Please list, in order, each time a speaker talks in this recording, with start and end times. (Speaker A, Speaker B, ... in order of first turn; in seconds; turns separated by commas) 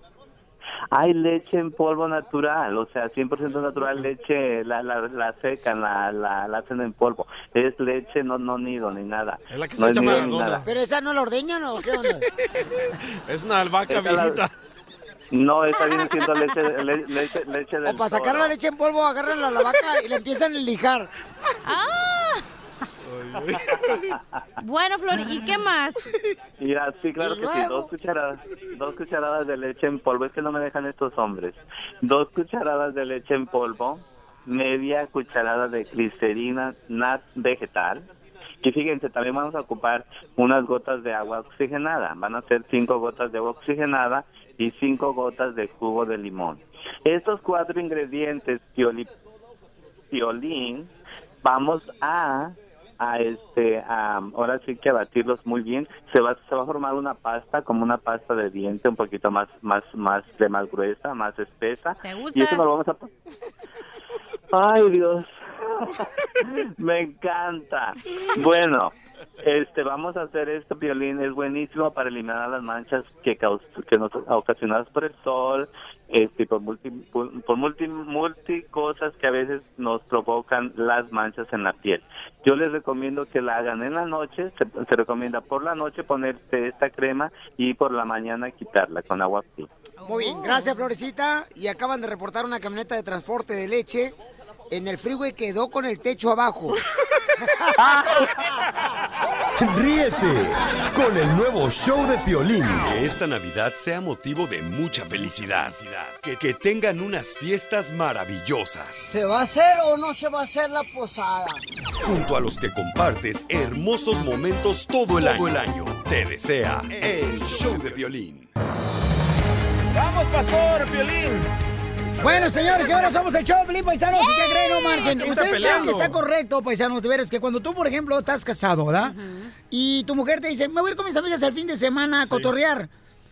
Speaker A: 0.9-10.7, Speaker B: 9.5-10.7, Speaker C: 9.9-12.2, Speaker B: 13.2-14.5, Speaker A: 13.9-14.4, Speaker A: 15.3-18.5, Speaker C: 17.8-21.1, Speaker D: 21.6-22.4, Speaker B: 23.1-24.0, Speaker D: 24.6-26.1, Speaker A: 26.6-38.1, Speaker D: 27.3-27.7, Speaker A: 38.6-49.1, Speaker A: 50.1-50.9, Speaker A: 51.4-63.1, Speaker D: 62.0-62.6, Speaker A: 64.5-89.7, Speaker C: 90.0-94.1, Speaker D: 90.1-90.7, Speaker C: 94.7-96.8, Speaker C: 97.4-98.2, Speaker E: 99.6-109.2, Speaker F: 109.1-111.6, Speaker E: 112.0-118.5, Speaker B: 119.9-121.5, Speaker C: 122.2-129.2, Speaker D: 124.1-125.8, Speaker B: 125.0-126.2, Speaker D: 129.0-129.5, Speaker C: 129.7-132.9